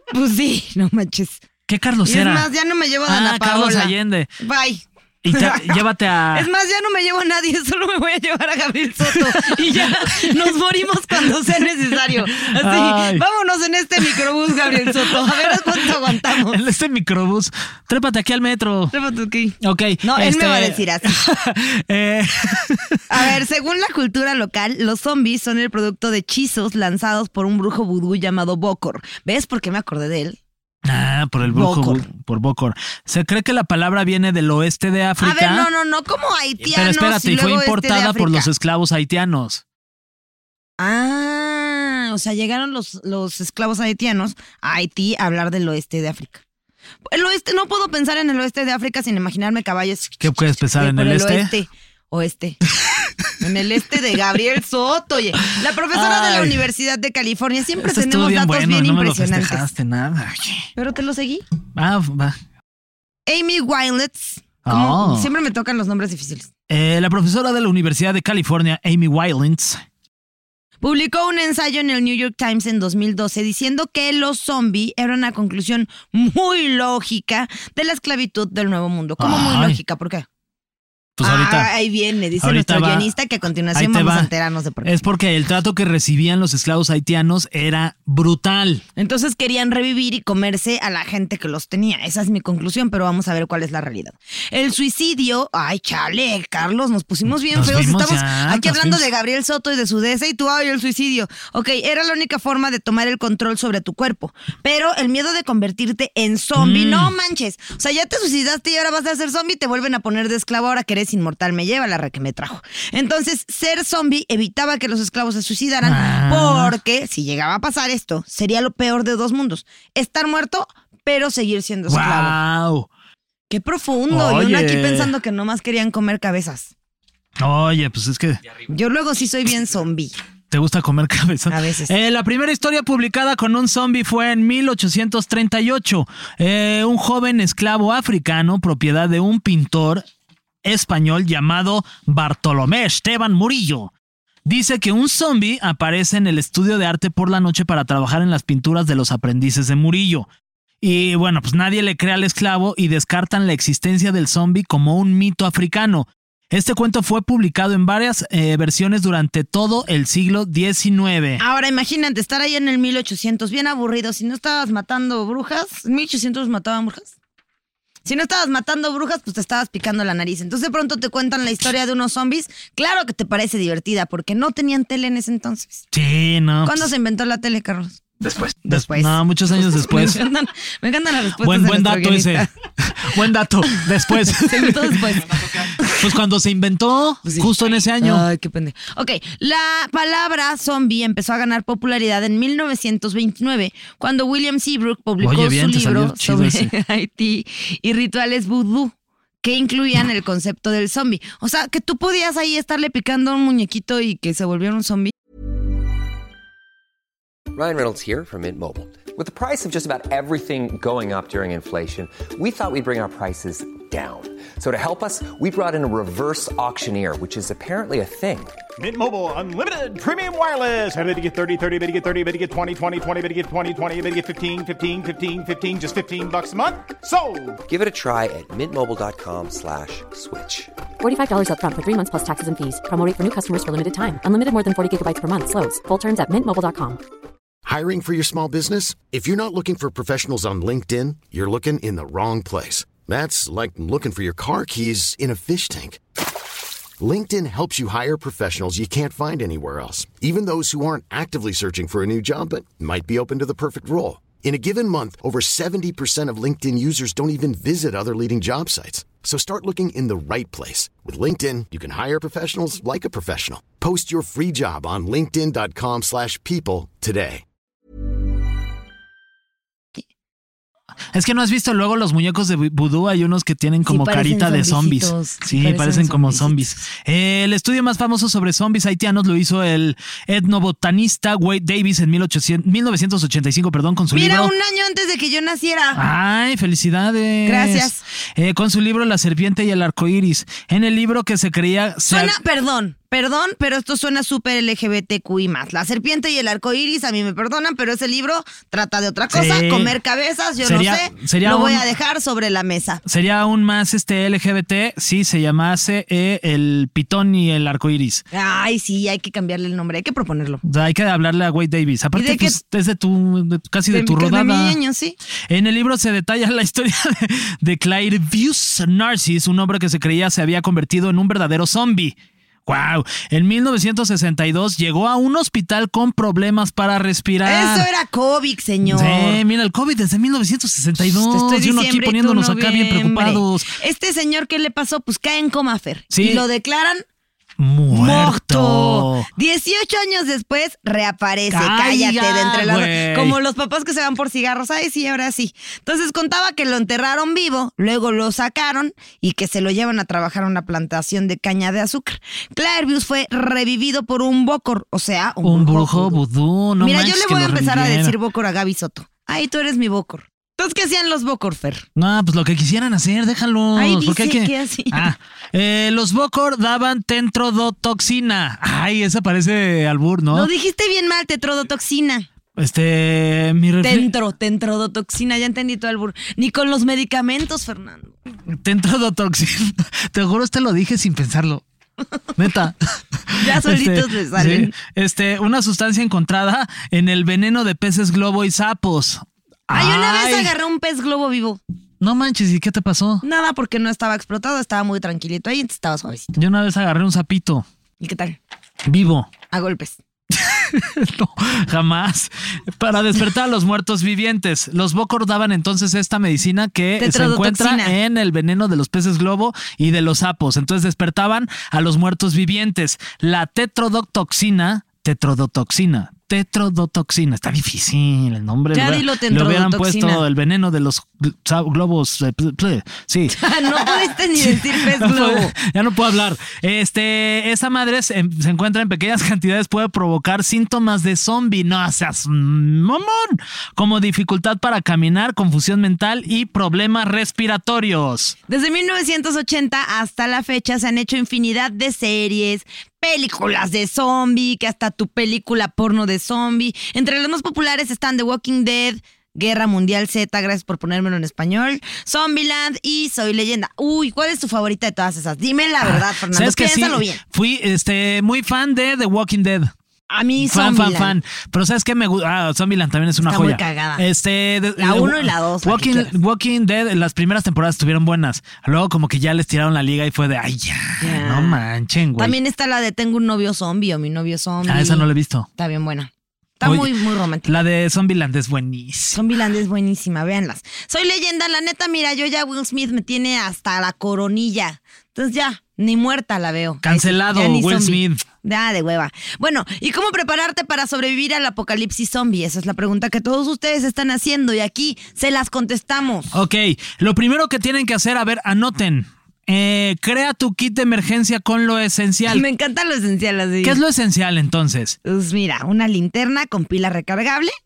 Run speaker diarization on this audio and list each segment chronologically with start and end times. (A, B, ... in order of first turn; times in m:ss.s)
0:00.1-0:01.4 A
0:01.7-0:02.5 B
0:02.1-0:05.8 A
0:03.1-0:04.3 B
0:05.2-0:06.5 B
0:06.3-0:16.6 A
0:09.1-0:10.5 B
0:11.9-0:13.2 B
0:14.7-0:18.9 B
0:18.9-0:21.2 A
0:19.6-0:23.0 B
0:23.1-0:30.4 A
0:30.8-0:35.7 B
0:31.5-0:32.1 A
0:35.2-0:38.5 A
0:36.6-0:39.6 B
0:40.8-0:46.4 A
0:47.1-0:52.6 A
0:50.2-0:51.5 B
0:53.4-0:59.7 A
0:55.9-0:56.6 B
0:57.8-1:00.7 B
1:00.8-1:01.4 A
1:01.8-1:02.4 B
1:03.3-1:06.5 A
1:04.6-1:05.3 B
1:06.7-1:09.8 B
1:10.8-1:20.3 A
1:19.2-1:19.8 B
1:21.2-1:21.7 B
1:21.2-1:25.0 A
1:22.4-1:23.1 B
1:23.7-1:24.3 B
1:24.8-1:28.8 B
1:29.0-2:02.4 A
1:37.5-1:39.0 B
1:46.6-1:47.1 B
1:55.8-1:56.8 B
2:01.9-2:02.9 B
2:03.5-2:06.7 A
2:04.1-2:05.1 B
2:07.4-2:08.4 B
2:08.7-2:10.2 A
2:10.5-2:20.0 B
2:11.5-2:11.9 A
2:20.6-2:23.9 B
2:24.5-2:30.3 B
2:30.8-2:41.4 B
2:41.4-2:47.1 A
2:48.0-2:55.8 A
2:55.9-2:56.9 B
2:56.6-2:58.0 A
2:58.3-3:00.2 B
2:58.6-3:02.5 A
3:01.4-3:05.2 B
3:04.3-3:06.0 A
3:05.9-3:08.3 B
3:07.2-3:25.1 A
3:15.2-3:16.7 B
3:27.5-3:38.6 C
3:38.8-3:47.6 D
3:47.7-3:50.7 C
3:51.0-3:57.0 E
3:57.6-4:06.0 F
4:07.0-4:27.4 F
4:31.1-4:44.5 B
4:33.9-4:36.8 A
4:44.1-4:46.0 A
4:45.9-4:52.4 B
4:47.5-4:48.0 A
4:52.1-5:03.0 A
4:59.3-5:00.0 B
5:00.6-5:01.9 B
5:03.0-5:08.2 B
5:08.3-5:10.6 A
5:10.6-5:14.8 B
5:12.2-5:12.6 A
5:13.9-5:15.2 A
5:15.5-5:22.2 B
5:22.7-5:27.9 B
5:27.5-5:29.4 A
5:28.9-5:33.7 B
5:31.2-5:37.0 A
5:36.1-5:36.4 B
5:37.6-5:39.3 B
5:37.9-5:56.2 A
5:41.5-5:43.4 B
5:55.4-5:58.1 B
5:56.8-6:01.8 A
6:02.0-6:10.5 B
6:03.8-6:05.1 A
6:10.3-6:12.3 A
6:12.6-6:14.1 B
6:13.8-6:18.2 A
6:18.5-6:21.6 B
6:22.4-6:30.5 B
6:23.4-6:24.7 A
6:29.7-6:31.6 A
6:32.0-6:33.2 B
6:33.2-6:36.3 A
6:36.4-6:37.6 B
6:38.0-6:38.4 A
6:38.9-6:39.3 B
6:39.5-6:40.0 A
6:40.3-7:18.4 B
6:47.0-6:48.0 A
6:58.7-7:00.2 A
7:03.3-7:05.5 A
7:18.5-7:37.2 A
7:35.8-7:39.7 B
7:40.1-7:41.2 A
7:40.4-7:52.4 B
7:43.2-7:44.0 A
7:44.8-7:46.1 A
7:51.0-7:51.6 A
7:52.2-7:55.1 A
7:54.7-7:55.5 B
7:55.6-7:57.5 A
7:56.6-7:56.9 B
7:57.4-7:59.2 B
7:59.1-8:16.3 A
8:06.8-8:08.2 B
8:16.3-8:22.4 B
8:22.3-8:23.8 A
8:23.6-8:25.0 B
8:25.0-8:27.5 A